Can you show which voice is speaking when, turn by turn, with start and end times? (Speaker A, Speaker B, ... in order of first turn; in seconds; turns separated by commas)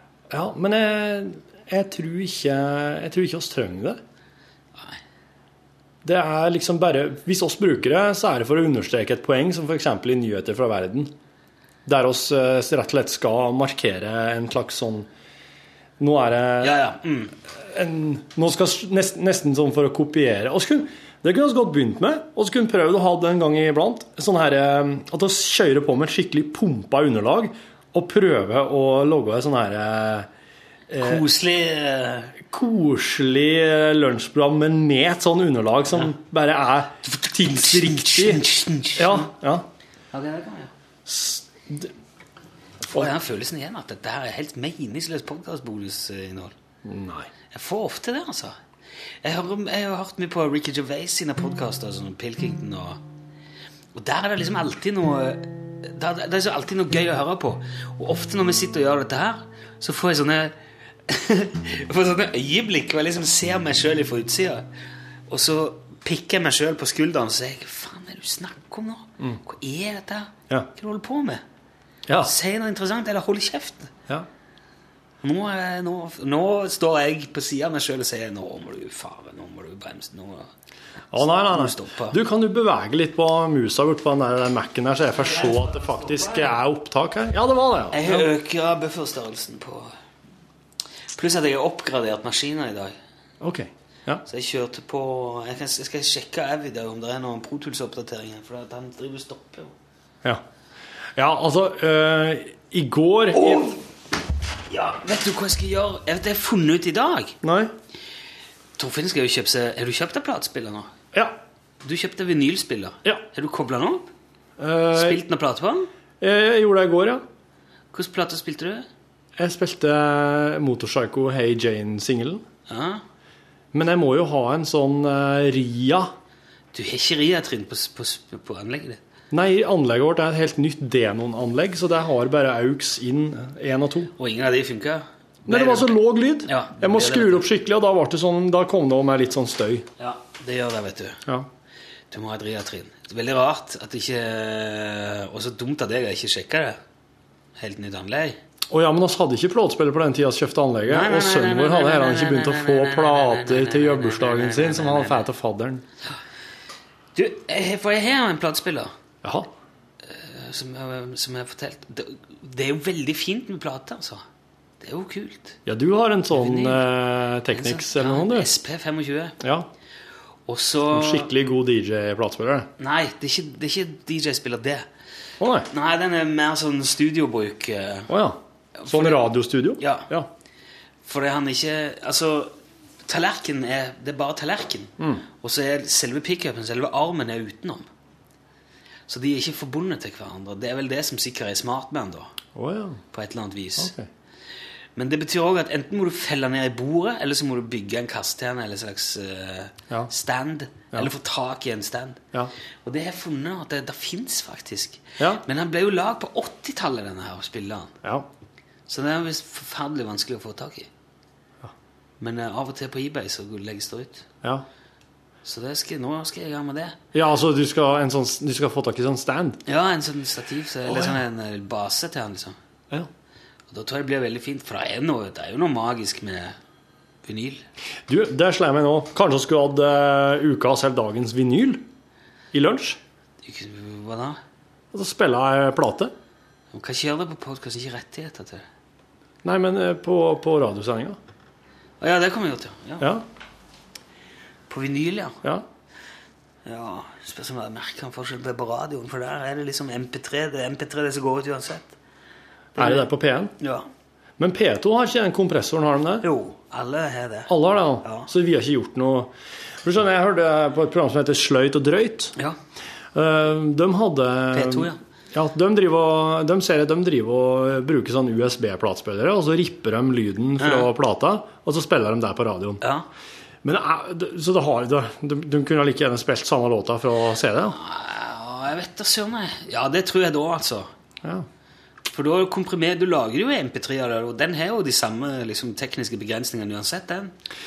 Speaker A: 0.3-4.0, Speaker A: 6.0-11.1, Speaker A: 11.8-15.1, Speaker A: 16.0-16.8, Speaker B: 16.6-17.3, Speaker A: 17.6-30.3, Speaker A: 30.9-31.2, Speaker B: 31.0-32.4, Speaker A: 32.5-39.6, Speaker B: 37.1-39.3, Speaker B: 40.1-40.7, Speaker A: 41.0-41.9, Speaker B: 42.9-46.5, Speaker A: 46.8-47.3, Speaker B: 47.5-48.6, Speaker B: 49.2-53.0, Speaker B: 53.9-60.5, Speaker B: 61.1-64.7, Speaker B: 65.3-71.4, Speaker A: 72.1-72.3, Speaker B: 72.1-73.9, Speaker B: 75.2-80.5, Speaker A: 81.1-88.3, Speaker B: 81.1-82.2, Speaker B: 85.1-86.6, Speaker B: 87.9-89.9, Speaker B: 91.1-92.9, Speaker A: 93.4-94.2, Speaker B: 94.2-99.7, Speaker A: 101.2-103.7, Speaker B: 103.3-103.8, Speaker B: 104.7-107.4, Speaker A: 107.4-107.7, Speaker B: 108.8-110.9, Speaker A: 111.1-111.4, Speaker B: 111.8-114.1, Speaker A: 114.6-115.2, Speaker B: 114.9-115.9, Speaker A: 116.2-117.2, Speaker B: 117.9-118.9, Speaker A: 119.4-122.4, Speaker B: 122.7-123.0, Speaker A: 123.7-126.1, Speaker B: 126.7-129.0, Speaker A: 129.3-134.1, Speaker B: 134.2-137.5, Speaker A: 135.5-139.8, Speaker B: 140.0-141.2, Speaker B: 142.1-146.8, Speaker B: 147.6-148.4, Speaker A: 148.7-155.8, Speaker B: 150.8-155.3, Speaker B: 157.1-158.9, Speaker A: 159.2-159.5, Speaker B: 160.0-164.2, Speaker B: 164.8-165.6, Speaker A: 165.7-168.5, Speaker B: 166.3-166.9, Speaker B: 167.5-169.4, Speaker A: 169.4-169.7, Speaker B: 170.4-171.3, Speaker A: 170.9-172.7, Speaker B: 172.8-174.9, Speaker A: 175.4-175.7, Speaker B: 175.6-178.1, Speaker A: 178.1-180.3, Speaker B: 178.8-180.1, Speaker B: 181.0-182.5, Speaker B: 183.1-187.8, Speaker A: 185.0-185.2, Speaker B: 189.1-192.3, Speaker A: 192.5-193.0, Speaker B: 193.1-193.9, Speaker A: 193.8-194.1, Speaker B: 194.9-202.2, Speaker B: 202.8-207.9, Speaker B: 208.9-210.9, Speaker B: 212.2-214.3, Speaker B: 215.4-217.0, Speaker A: 217.1-219.6, Speaker B: 219.7-222.6, Speaker A: 220.9-221.2, Speaker B: 223.7-226.6, Speaker B: 227.2-227.6, Speaker A: 228.1-231.8, Speaker A: 232.5-233.0, Speaker B: 233.4-234.4, Speaker A: 234.9-236.1, Speaker B: 236.7-238.7, Speaker A: 239.4-241.2, Speaker B: 242.0-243.1, Speaker B: 244.7-245.4, Speaker B: 246.6-251.9, Speaker B: 252.8-253.1, Speaker A: 252.8-253.5, Speaker B: 253.6-253.9, Speaker A: 254.4-256.2, Speaker B: 256.2-257.5, Speaker A: 257.5-259.3, Speaker B: 258.0-258.3, Speaker A: 259.8-262.3, Speaker A: 263.1-272.8, Speaker B: 264.5-265.0, Speaker B: 270.6-270.9, Speaker B: 272.8-273.1, Speaker A: 273.6-277.8, Speaker B: 277.7-280.9, Speaker B: 282.0-287.4